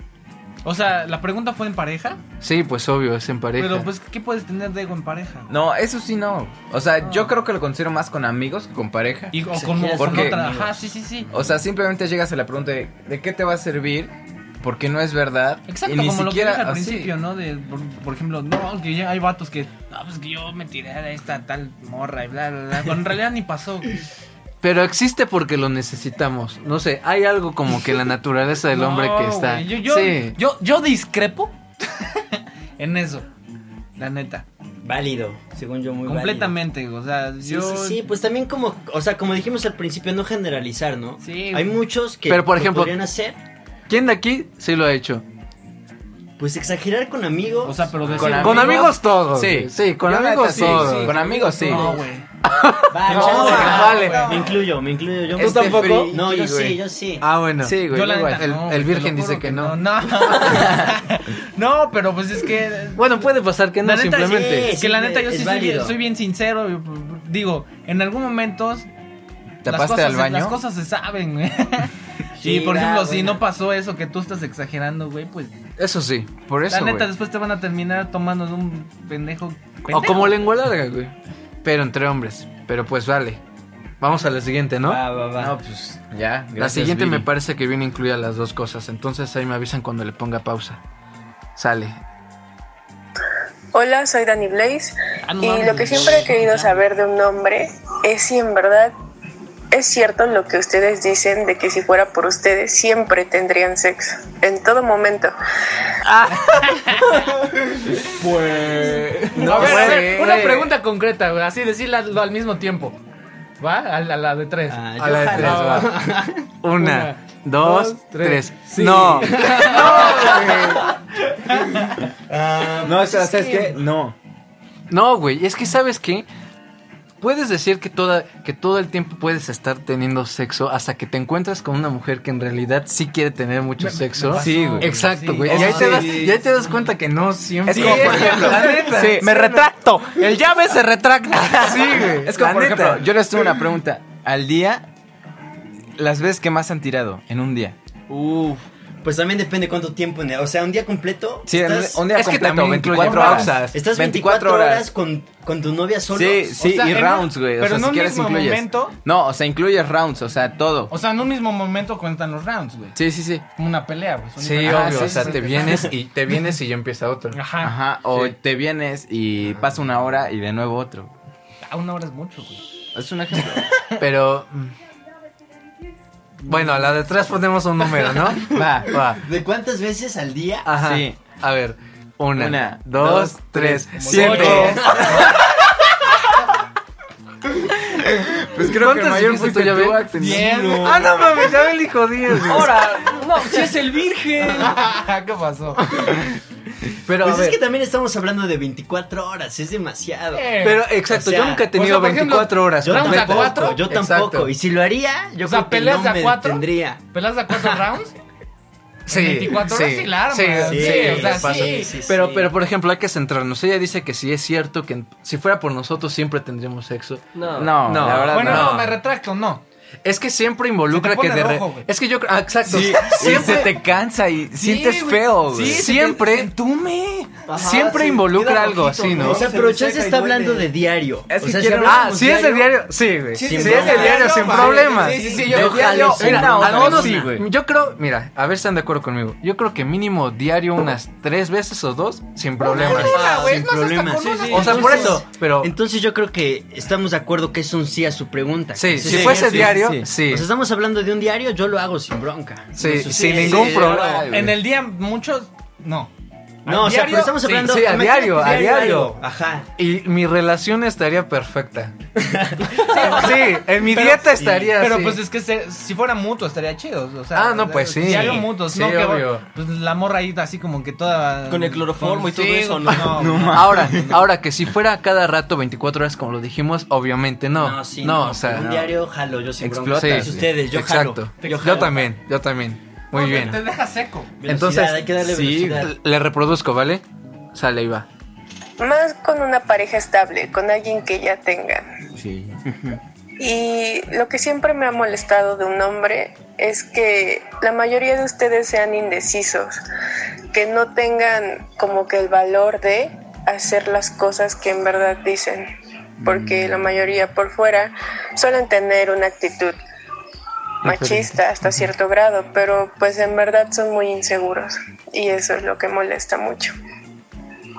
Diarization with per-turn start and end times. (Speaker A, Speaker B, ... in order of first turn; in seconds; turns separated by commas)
Speaker A: 0.7-2.2, Speaker B: 2.4-3.9, Speaker A: 3.6-5.5, Speaker C: 5.5-9.4, Speaker A: 7.0-7.3, Speaker A: 9.3-11.3, Speaker D: 9.5-10.9, Speaker C: 10.0-10.4, Speaker C: 11.3-17.1, Speaker A: 15.7-24.0, Speaker B: 24.6-30.4, Speaker A: 28.7-33.3, Speaker A: 34.0-34.5, Speaker D: 34.8-36.5, Speaker A: 36.1-38.0, Speaker D: 37.4-43.4, Speaker A: 41.2-41.8, Speaker B: 42.3-43.0, Speaker B: 43.9-45.2, Speaker D: 46.4-48.4, Speaker A: 47.6-48.9, Speaker C: 48.1-52.0, Speaker B: 48.4-51.2, Speaker A: 50.5-52.3, Speaker E: 50.8-52.0, Speaker B: 52.5-54.3, Speaker D: 52.9-57.2, Speaker A: 53.1-54.6, Speaker C: 53.1-54.0, Speaker C: 55.3-56.8, Speaker B: 55.4-56.2, Speaker B: 57.2-60.6, Speaker C: 57.6-58.5, Speaker A: 57.9-63.2, Speaker C: 60.4-60.9, Speaker B: 63.0-64.7, Speaker A: 63.8-68.9, Speaker D: 64.2-66.0, Speaker C: 69.6-70.6, Speaker A: 69.7-75.5, Speaker D: 72.4-73.4, Speaker B: 75.8-76.3, Speaker C: 76.5-77.1, Speaker A: 76.7-80.5, Speaker B: 79.9-81.1, Speaker B: 81.6-83.4, Speaker B: 84.0-85.0, Speaker D: 84.8-85.6, Speaker C: 85.4-87.3, Speaker B: 86.6-90.8, Speaker B: 91.6-92.0, Speaker F: 93.7-98.9, Speaker A: 95.3-96.8, Speaker F: 99.7-105.3, Speaker A: 106.4-107.2, Speaker C: 108.2-110.6, Speaker E: 108.4-109.1, Speaker A: 109.3-113.0, Speaker B: 109.4-110.6, Speaker A: 113.6-116.0, Speaker D: 114.7-116.5, Speaker B: 115.0-115.9, Speaker B: 116.6-120.8, Speaker A: 116.7-120.9, Speaker C: 118.8-120.8, Speaker D: 118.9-120.5, Speaker D: 122.3-123.8, Speaker C: 122.8-124.2, Speaker B: 124.9-126.3, Speaker B: 127.2-139.7, Speaker A: 133.8-136.3, Speaker C: 134.3-136.4, Speaker C: 137.7-139.7, Speaker A: 137.7-142.1, Speaker C: 141.4-144.9, Speaker B: 141.5-143.1, Speaker C: 146.0-147.8, Speaker E: 148.1-148.6, Speaker D: 149.0-152.0, Speaker C: 151.5-154.9, Speaker B: 152.1-153.8, Speaker D: 153.0-156.8, Speaker C: 156.1-160.9, Speaker A: 156.6-158.9, Speaker A: 160.9-163.0, Speaker C: 162.9-163.4, Speaker A: 163.6-165.9, Speaker B: 164.4-167.4, Speaker C: 164.6-165.3, Speaker A: 167.3-167.8, Speaker C: 167.6-171.1, Speaker A: 171.7-172.7, Speaker C: 172.9-173.7, Speaker B: 174.0-174.7, Speaker A: 176.4-177.0, Speaker B: 176.5-179.2, Speaker C: 178.4-178.9, Speaker D: 179.2-180.7, Speaker B: 180.7-184.8, Speaker C: 180.8-181.2, Speaker C: 182.3-185.2, Speaker A: 184.0-185.3, Speaker D: 184.8-185.0, Speaker C: 187.9-190.7, Speaker B: 188.7-190.2, Speaker A: 190.2-191.0, Speaker E: 190.2-191.0, Speaker B: 190.7-192.9, Speaker E: 192.4-194.7, Speaker A: 194.5-195.9, Speaker B: 197.1-197.6, Speaker D: 197.2-201.8, Speaker A: 200.3-200.8, Speaker B: 200.6-204.5, Speaker A: 201.7-203.8, Speaker D: 202.8-207.0, Speaker A: 205.4-208.1, Speaker A: 209.1-211.9, Speaker B: 209.1-219.0, Speaker D: 210.6-212.5, Speaker E: 217.3-218.1, Speaker C: 217.6-218.8, Speaker A: 218.2-219.6, Speaker B: 220.1-223.8, Speaker A: 220.9-221.9, Speaker C: 222.7-225.9, Speaker A: 223.2-223.6, Speaker A: 224.6-227.5, Speaker B: 225.6-226.5, Speaker E: 227.5-230.7, Speaker B: 227.6-229.5, Speaker D: 227.6-232.8, Speaker C: 231.3-232.2, Speaker B: 231.8-243.3, Speaker E: 233.4-235.8, Speaker D: 233.4-237.3, Speaker A: 233.7-236.1, Speaker C: 235.4-237.5, Speaker D: 242.6-254.2, Speaker A: 242.8-245.2, Speaker E: 243.1-243.5, Speaker E: 244.1-245.1, Speaker B: 244.5-245.7, Speaker B: 248.8-250.5, Speaker C: 249.0-250.1, Speaker B: 252.8-254.2, Speaker C: 253.2-254.6, Speaker A: 254.3-256.1, Speaker A: 256.6-257.7, Speaker D: 256.6-259.7, Speaker B: 257.4-259.1, Speaker B: 259.8-261.9, Speaker D: 262.2-263.3, Speaker A: 262.8-273.9, Speaker B: 262.9-265.2, Speaker D: 264.4-264.7, Speaker B: 267.3-269.4, Speaker E: 271.5-273.6, Speaker C: 273.0-274.2, Speaker B: 273.5-278.9, Speaker D: 277.6-282.1, Speaker C: 279.6-280.6, Speaker B: 279.9-283.6, Speaker A: 281.4-281.9, Speaker A: 283.1-284.3, Speaker D: 283.2-283.6, Speaker D: 284.4-285.9, Speaker B: 284.5-288.1, Speaker C: 285.3-285.8, Speaker F: 288.8-291.9, Speaker C: 292.1-292.6, Speaker D: 292.7-293.0, Speaker F: 293.4-299.8, Speaker F: 300.5-305.7, Speaker F: 306.2-309.8, Speaker B: 310.8-311.4, Speaker F: 310.8-316.7